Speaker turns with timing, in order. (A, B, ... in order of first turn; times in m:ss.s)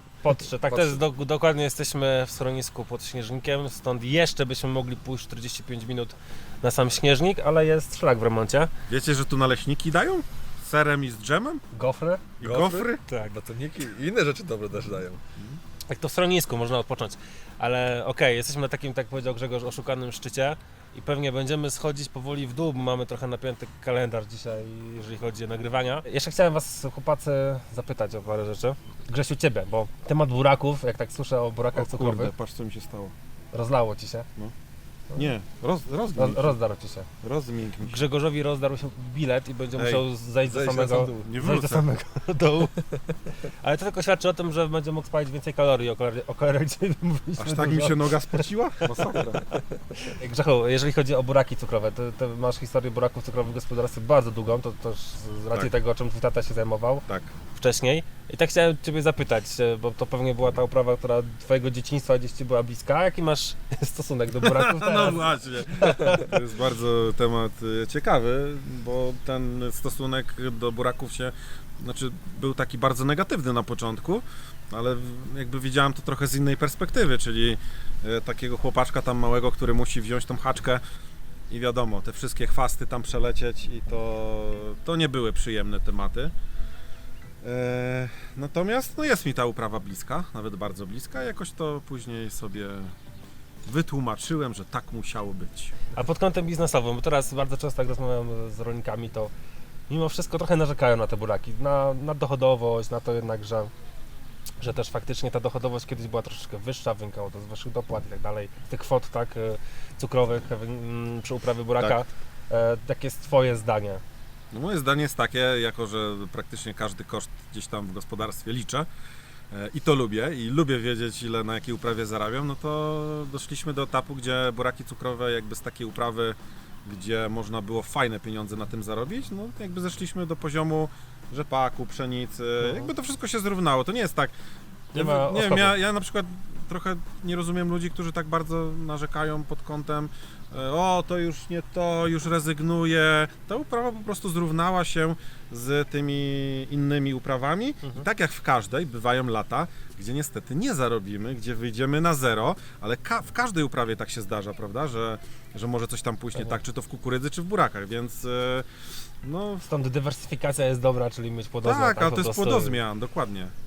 0:00.2-0:08.7 A
0:00.7-0:01.0 B
0:08.9-0:11.6 C
0:11.7-0:12.3 A
0:12.4-0:13.0 C
0:12.4-0:15.2 B
0:13.1-0:13.3 A
0:15.9-0:32.3 A
0:31.7-0:33.1 C
0:33.5-0:34.3 A
0:35.1-0:36.6 C
0:36.1-0:37.1 A
0:37.2-0:38.0 C
0:37.8-0:48.4 A
0:39.8-0:41.3 B
0:41.2-0:41.9 C
0:47.4-0:49.4 C
0:49.9-1:06.2 A
1:04.4-1:20.8 C
1:21.5-1:26.3 C
1:27.4-1:32.9 C
1:33.6-1:35.8 C
1:35.9-1:39.3 A
1:39.9-1:43.7 A
1:44.6-1:54.0 A
1:54.5-1:58.9 C
1:59.5-2:14.3 C
2:12.6-2:12.9 A
2:14.9-2:15.7 A
2:14.9-2:38.7 C
2:39.2-2:39.6 C
2:39.6-2:42.8 A
2:41.6-2:43.5 C